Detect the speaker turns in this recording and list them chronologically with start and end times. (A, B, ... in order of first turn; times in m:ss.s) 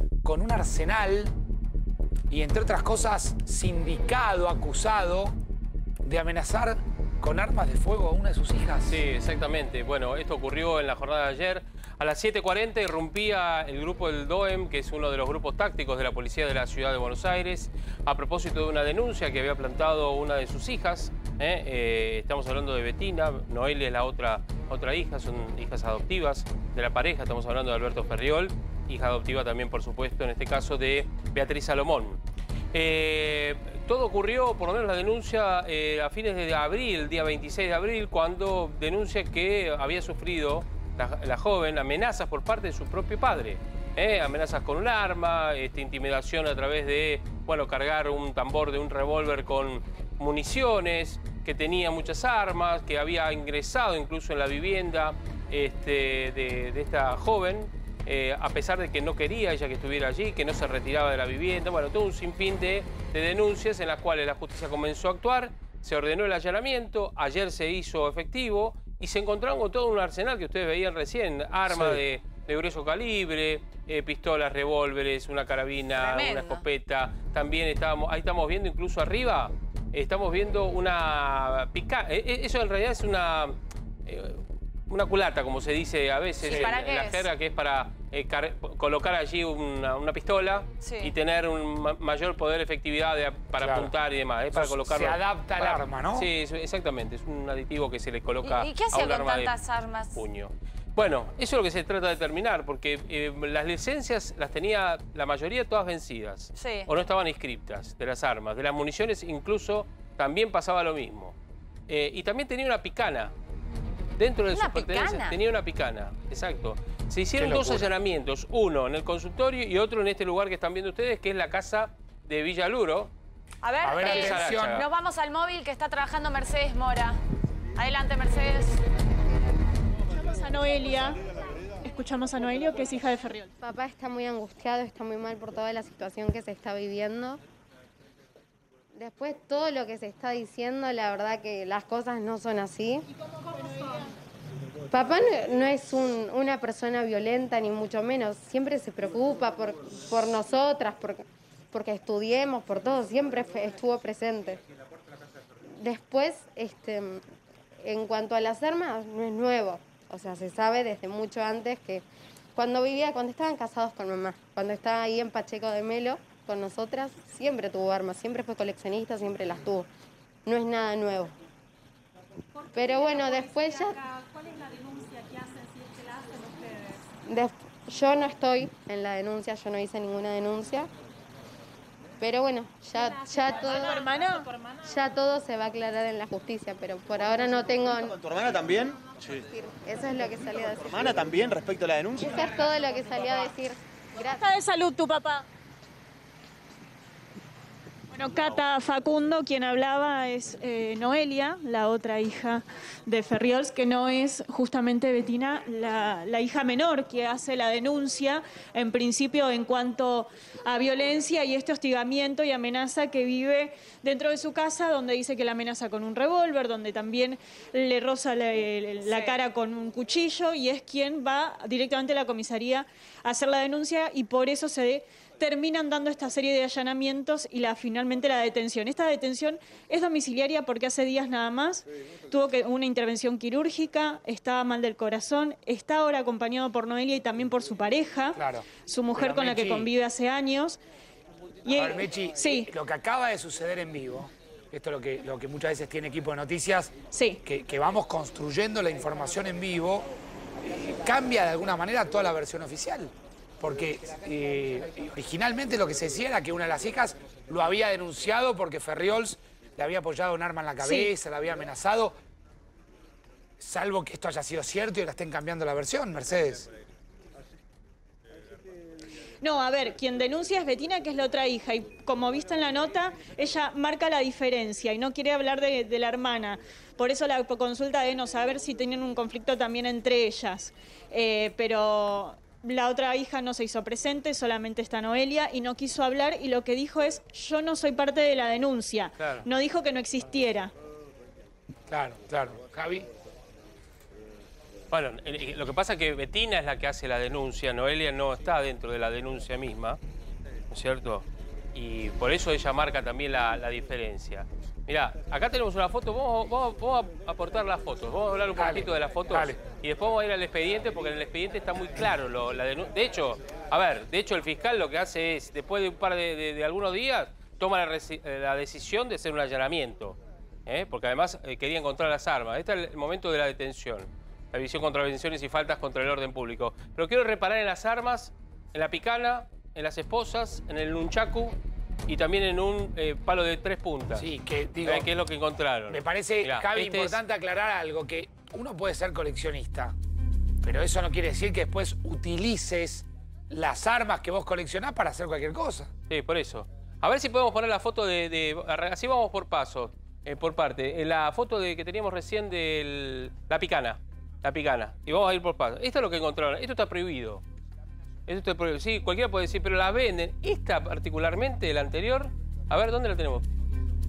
0:00.2-0:01.4 A
0:02.3-0:05.3 A
0:06.0-0:09.0 A
0:08.9-0:32.2 B
0:32.7-1:39.6 B
1:11.7-1:12.0 A
1:16.0-1:16.6 C
1:26.4-1:27.3 C
1:30.8-1:31.1 C
1:33.6-1:33.9 A
1:34.5-1:36.3 A
1:38.4-1:40.2 C
1:40.1-1:51.4 B
1:46.6-1:46.9 C
1:51.9-1:53.3 B
1:54.2-2:03.1 B
1:54.5-1:55.4 C
1:57.4-1:57.9 A
2:03.6-2:07.2 C
2:03.8-2:04.8 A
2:04.0-2:04.9 B
2:07.8-2:08.8 C
2:10.2-2:11.2 D
2:11.8-2:13.5 D
2:13.6-2:17.4 E
2:13.8-2:14.8 C
2:18.9-2:23.0 E
2:24.9-2:34.6 E
2:35.8-2:37.2 E
2:37.8-2:42.0 E
2:42.6-2:49.9 E
2:50.5-2:51.4 E
2:52.7-2:54.0 E
2:57.3-3:00.9 E
3:02.2-3:04.1 E
3:04.0-3:04.5 D
3:04.8-3:08.1 E
3:07.9-3:09.5 F
3:09.6-3:10.8 E
3:10.3-3:12.4 F
3:12.3-3:14.5 E
3:14.2-3:15.5 D
3:18.1-4:00.8 D
3:39.0-3:39.4 C
3:58.4-3:59.9 A
4:01.6-4:02.7 D
4:01.7-4:06.9 A
4:07.1-4:07.4 D
4:07.4-4:10.1 A
4:10.6-4:22.2 A
4:20.8-4:21.1 D
4:23.6-4:26.7 A
4:29.4-4:50.7 D
4:49.2-4:49.4 B
4:51.9-4:53.1 A
4:54.9-5:00.0 B
5:00.7-5:34.3 B
5:08.6-5:09.6 A
5:34.2-5:35.1 A
5:34.8-5:37.2 B
5:35.9-5:39.9 A
5:40.6-5:45.9 A
5:46.1-5:57.4 B
5:58.3-6:03.5 B